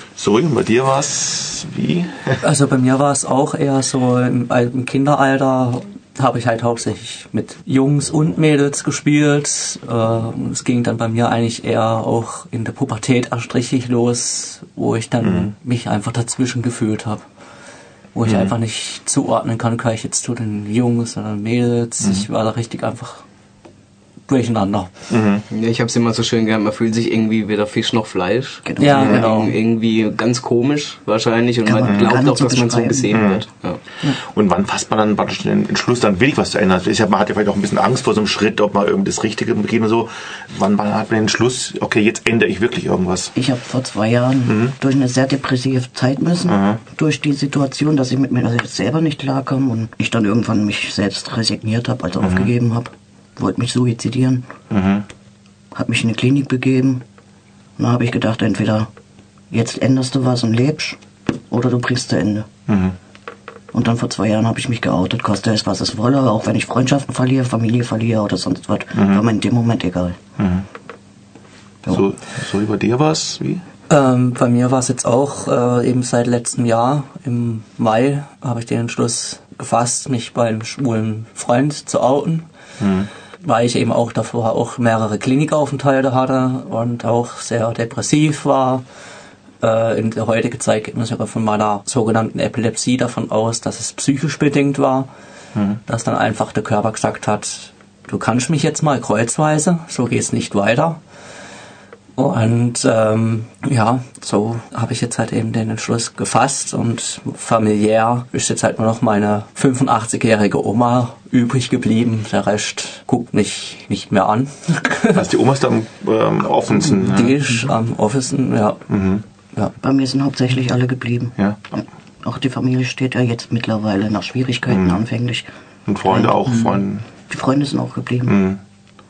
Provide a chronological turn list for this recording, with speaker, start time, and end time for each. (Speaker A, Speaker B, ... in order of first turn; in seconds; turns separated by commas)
Speaker A: 0.2-2.4, Speaker B: 2.4-17.2, Speaker A: 15.2-15.5, Speaker B: 18.1-23.2, Speaker A: 18.2-18.5, Speaker B: 24.3-24.9, Speaker A: 25.1-25.4, Speaker C: 25.5-33.8, Speaker D: 28.6-29.3, Speaker B: 28.8-29.5, Speaker D: 31.6-33.2, Speaker A: 31.9-32.2, Speaker A: 33.1-33.4, Speaker A: 34.2-43.3, Speaker D: 43.3-54.5, Speaker A: 44.5-44.7, Speaker A: 46.5-46.8, Speaker A: 52.2-52.5, Speaker A: 54.7-55.0, Speaker D: 55.7-57.0, Speaker D: 57.8-58.9, Speaker D: 59.5-61.0, Speaker D: 61.5-62.5, Speaker A: 62.7-63.0, Speaker D: 63.7-70.3, Speaker A: 68.9-69.2, Speaker A: 70.4-70.6, Speaker A: 71.8-73.6, Speaker B: 73.9-82.5, Speaker A: 82.8-83.1, Speaker B: 83.4-88.8, Speaker B: 89.6-95.1, Speaker B: 95.8-101.0, Speaker B: 102.2-115.2, Speaker A: 115.1-117.3, Speaker B: 117.0-118.8, Speaker A: 118.9-119.2, Speaker D: 119.8-125.5, Speaker A: 124.7-125.0, Speaker A: 125.9-127.0, Speaker D: 127.3-128.4, Speaker A: 128.2-128.6